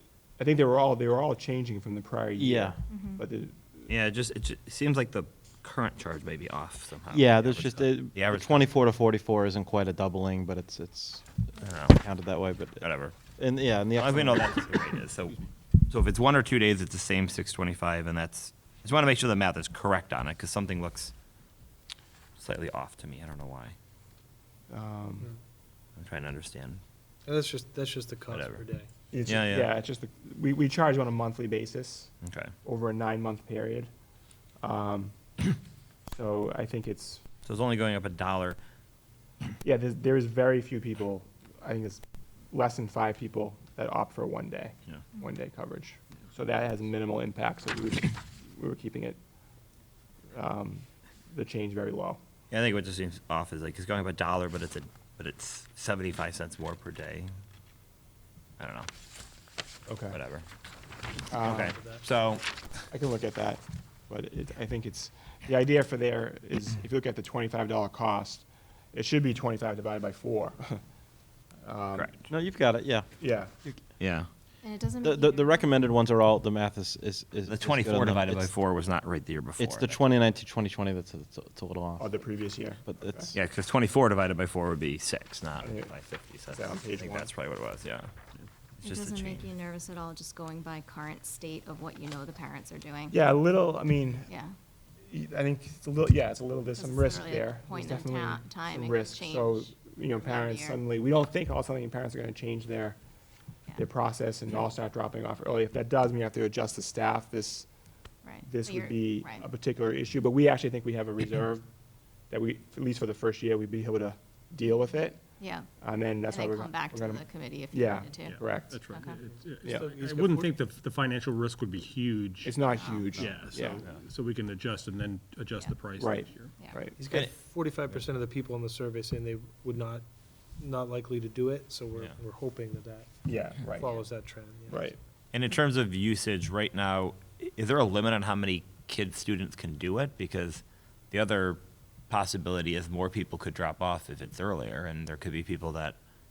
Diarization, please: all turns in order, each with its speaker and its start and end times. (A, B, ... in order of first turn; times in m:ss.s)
0:00.4-0:03.9 A
0:02.4-0:02.8 B
0:02.9-0:03.2 C
0:03.9-0:08.7 D
0:07.1-0:14.9 B
0:11.6-0:12.0 D
0:12.8-0:13.1 D
0:14.0-0:21.1 D
0:22.4-0:23.7 D
0:24.7-0:25.3 A
0:26.0-0:26.8 D
0:27.2-0:28.9 E
0:28.3-0:28.6 D
0:29.1-0:32.1 A
0:29.3-0:29.7 D
0:32.2-0:32.5 D
0:32.6-0:33.9 A
0:34.6-0:35.2 A
0:36.1-0:37.2 A
0:37.4-0:38.6 D
0:39.6-0:49.2 A
0:50.3-0:52.2 A
0:52.5-0:57.3 D
0:58.6-0:58.9 D
0:59.9-1:00.2 A
1:00.1-1:00.4 D
1:01.3-1:01.7 A
1:01.4-1:02.8 D
1:01.7-1:02.0 E
1:02.9-1:10.8 A
1:11.6-1:12.2 A
1:11.9-1:12.2 D
1:12.3-1:13.1 B
1:13.2-1:13.5 A
1:14.0-1:14.3 D
1:14.6-1:15.8 C
1:15.0-1:18.5 B
1:17.5-1:20.0 D
1:19.6-1:22.2 B
1:22.0-1:23.3 A
1:22.8-1:23.4 B
1:23.3-1:28.1 D
1:25.6-1:25.9 A
1:26.5-1:27.3 A
1:28.8-1:29.5 D
1:28.8-1:33.2 C
1:33.1-1:34.3 A
1:34.3-1:34.5 C
1:35.1-1:43.0 A
1:36.8-1:39.7 C
1:40.2-1:40.8 C
1:43.8-1:47.7 A
1:48.2-1:49.4 C
1:48.4-1:51.6 A
1:52.3-1:55.2 A
1:55.4-1:55.7 C
1:55.8-1:58.8 A
1:56.3-1:59.2 C
1:58.2-2:06.6 F
1:59.7-2:00.5 E
2:02.4-2:03.8 A
2:02.7-2:03.1 C
2:06.0-2:07.0 A
2:07.0-2:10.0 E
2:10.6-2:13.1 E
2:13.2-2:14.0 A
2:13.6-2:14.9 E
2:14.7-2:15.0 A
2:15.3-2:26.0 D